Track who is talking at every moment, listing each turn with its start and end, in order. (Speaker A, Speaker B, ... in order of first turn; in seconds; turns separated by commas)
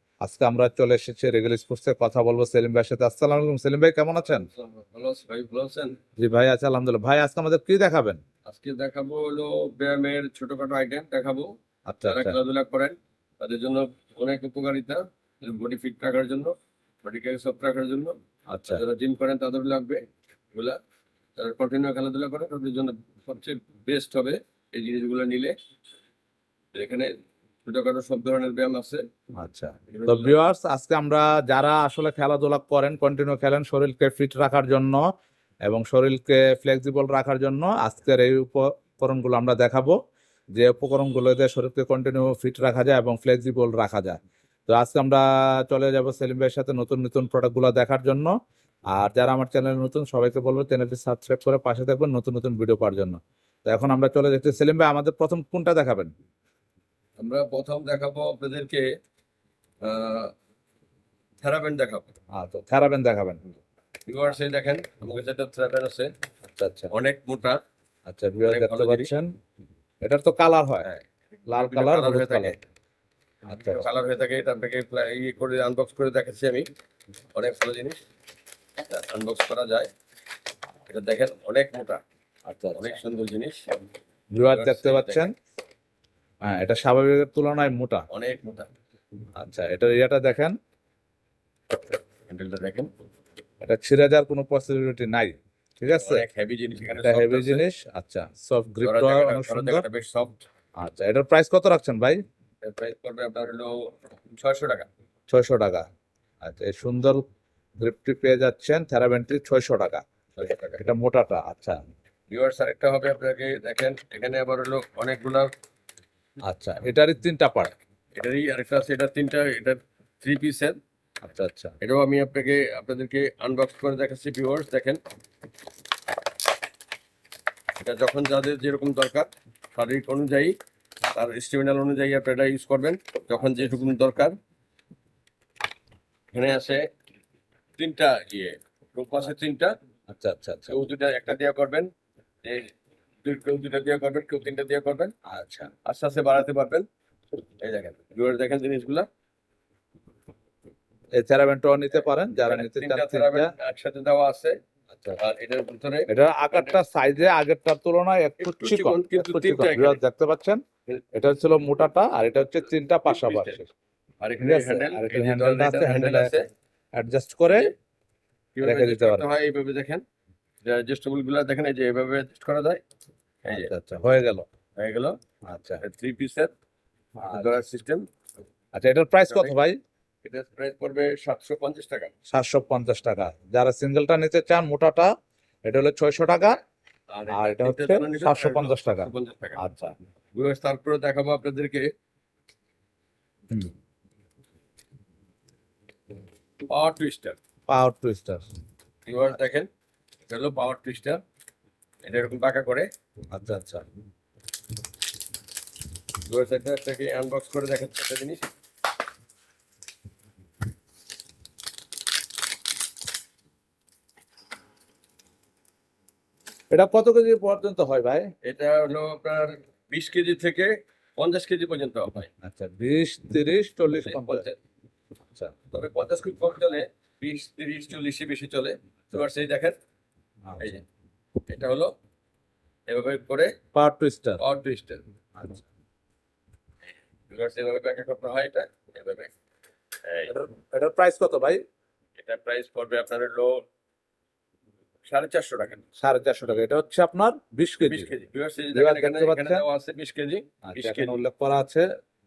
Speaker A: 0.2-4.5, Speaker B: 4.3-6.0, Speaker A: 6.2-8.2, Speaker B: 8.4-11.5, Speaker A: 11.9-12.4, Speaker B: 12.1-18.1, Speaker A: 18.5-18.8, Speaker B: 18.7-20.8, Speaker B: 21.4-25.5, Speaker B: 26.7-29.1, Speaker A: 29.4-35.1, Speaker B: 29.9-30.4, Speaker A: 35.6-40.0, Speaker A: 40.5-48.3, Speaker A: 48.9-56.1, Speaker B: 57.2-58.9, Speaker B: 59.8-60.3, Speaker B: 61.4-62.1, Speaker A: 62.3-63.4, Speaker B: 64.1-66.1, Speaker A: 66.5-66.9, Speaker B: 66.9-67.6, Speaker A: 68.1-69.3, Speaker B: 68.4-69.1, Speaker A: 70.0-70.9, Speaker A: 71.5-72.6, Speaker B: 71.5-72.6, Speaker A: 73.5-73.9, Speaker B: 73.5-76.7, Speaker B: 77.3-78.0, Speaker B: 78.8-79.9, Speaker B: 80.9-82.0, Speaker A: 82.5-83.0, Speaker B: 82.8-83.6, Speaker A: 84.3-85.3, Speaker B: 84.5-85.3, Speaker A: 86.4-88.0, Speaker B: 88.1-88.7, Speaker A: 89.3-90.6, Speaker B: 92.3-92.9, Speaker A: 93.6-96.2, Speaker B: 95.9-97.7, Speaker A: 97.0-99.8, Speaker B: 98.8-100.4, Speaker A: 100.8-102.2, Speaker B: 102.6-104.9, Speaker A: 105.3-105.9, Speaker A: 106.4-107.2, Speaker A: 107.8-110.0, Speaker B: 110.4-110.8, Speaker A: 110.8-111.8, Speaker B: 112.3-115.5, Speaker A: 116.5-117.7, Speaker B: 118.2-120.8, Speaker A: 121.2-121.7, Speaker B: 121.8-125.0, Speaker B: 127.8-130.5, Speaker B: 131.1-134.4, Speaker B: 136.3-136.9, Speaker B: 137.8-139.7, Speaker A: 140.1-140.8, Speaker B: 140.7-141.9, Speaker B: 142.4-142.7, Speaker B: 143.2-145.1, Speaker A: 145.3-145.7, Speaker B: 145.8-146.9, Speaker B: 147.6-149.1, Speaker A: 151.1-153.5, Speaker B: 152.4-154.6, Speaker A: 154.9-155.2, Speaker B: 155.2-156.8, Speaker A: 156.1-160.6, Speaker B: 158.4-160.0, Speaker A: 161.1-163.7, Speaker B: 163.1-163.6, Speaker B: 164.2-166.5, Speaker A: 164.4-166.3, Speaker A: 166.9-167.7, Speaker B: 168.5-170.0, Speaker A: 168.6-169.3, Speaker B: 170.6-172.8, Speaker B: 173.4-173.7, Speaker A: 173.5-174.5, Speaker B: 174.8-175.2, Speaker A: 175.5-175.8, Speaker B: 175.8-176.5, Speaker A: 177.2-177.4, Speaker B: 177.2-178.1, Speaker A: 178.7-179.8, Speaker B: 179.3-179.5, Speaker B: 180.2-182.1, Speaker A: 182.3-185.1, Speaker A: 185.7-186.6, Speaker B: 187.1-189.6, Speaker A: 187.3-189.9, Speaker B: 190.3-191.9, Speaker B: 196.7-197.4, Speaker A: 197.7-198.5, Speaker B: 199.1-199.7, Speaker B: 200.3-201.2, Speaker B: 202.0-202.9, Speaker A: 203.3-203.8, Speaker B: 206.3-208.5, Speaker A: 216.7-218.3, Speaker B: 218.4-222.3, Speaker A: 222.4-224.4, Speaker B: 224.0-224.6, Speaker B: 225.7-229.8, Speaker A: 230.5-230.8, Speaker B: 231.5-231.9, Speaker B: 232.9-233.5, Speaker A: 233.7-234.4, Speaker B: 234.4-235.0, Speaker A: 235.4-235.6, Speaker B: 237.3-239.3, Speaker B: 240.0-240.3, Speaker A: 240.3-241.6, Speaker B: 242.2-243.6, Speaker B: 245.0-245.8, Speaker A: 246.0-248.1, Speaker B: 247.8-251.2, Speaker A: 248.7-249.6, Speaker A: 250.7-251.8